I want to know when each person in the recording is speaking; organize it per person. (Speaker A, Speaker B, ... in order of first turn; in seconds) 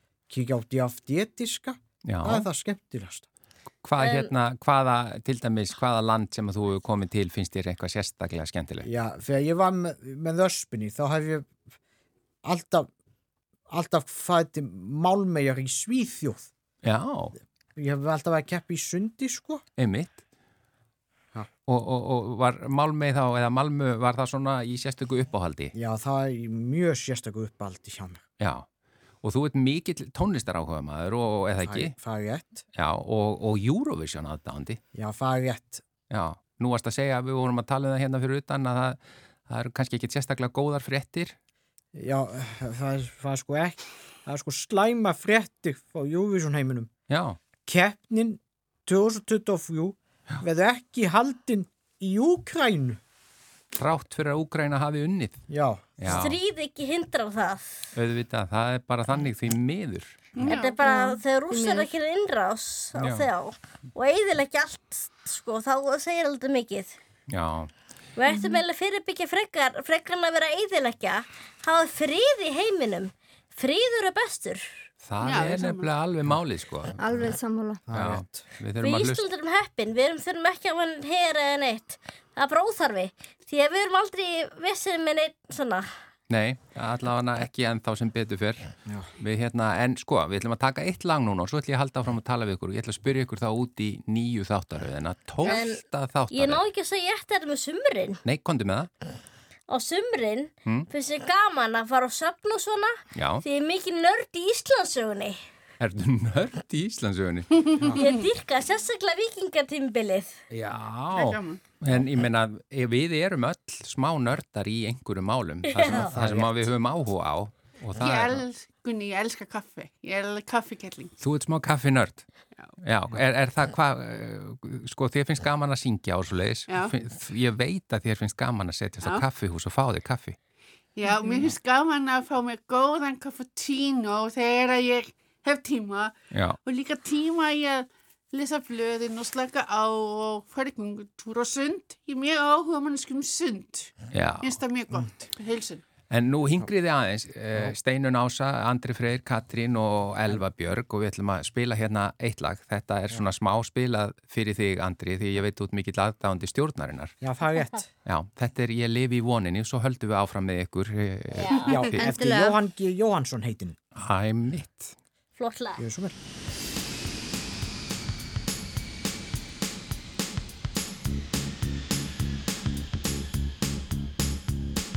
Speaker A: 0.3-3.3, 8.8-11.5, 12.4-12.9, 13.7-16.5, 17.8-19.6, 25.7-28.2, 31.6-32.6, 34.9-35.8, 41.9-46.9, 47.6-53.0, 55.5-56.2, 77.9-78.4, 157.2-157.9, 161.7-163.8, 165.8-166.2
Speaker B: 2.0-2.5, 3.8-8.9, 16.8-17.4, 19.8-20.1, 21.7-25.7, 28.4-28.6, 29.2-31.9, 32.7-34.8, 36.1-41.4, 47.1-47.4, 53.7-55.4, 56.0-56.4, 57.9-60.4, 63.0-63.2, 67.3-67.7, 75.0-77.0, 77.9-79.2, 86.3-96.6, 98.2-98.9, 103.1-103.4, 105.8-107.9, 110.5-118.4, 121.2-122.2, 122.8-130.3, 136.3-136.6, 144.1-144.6, 146.1-157.2, 158.1-161.9, 163.9-164.9
Speaker C: 4.0-4.3, 56.0-57.8, 60.5-67.0, 68.2-74.7, 78.8-85.9, 95.4-98.2, 99.7-105.4, 107.9-110.3, 115.7-116.3, 161.4-161.7, 165.4-165.8
Speaker D: 60.4-60.6, 75.2-75.9, 107.8-108.2, 111.1-111.6, 118.0-121.1, 126.7-126.9, 130.9-136.1, 136.7-145.8
Speaker E: 60.5-61.9, 68.3-68.6, 77.0-77.8, 161.9-162.6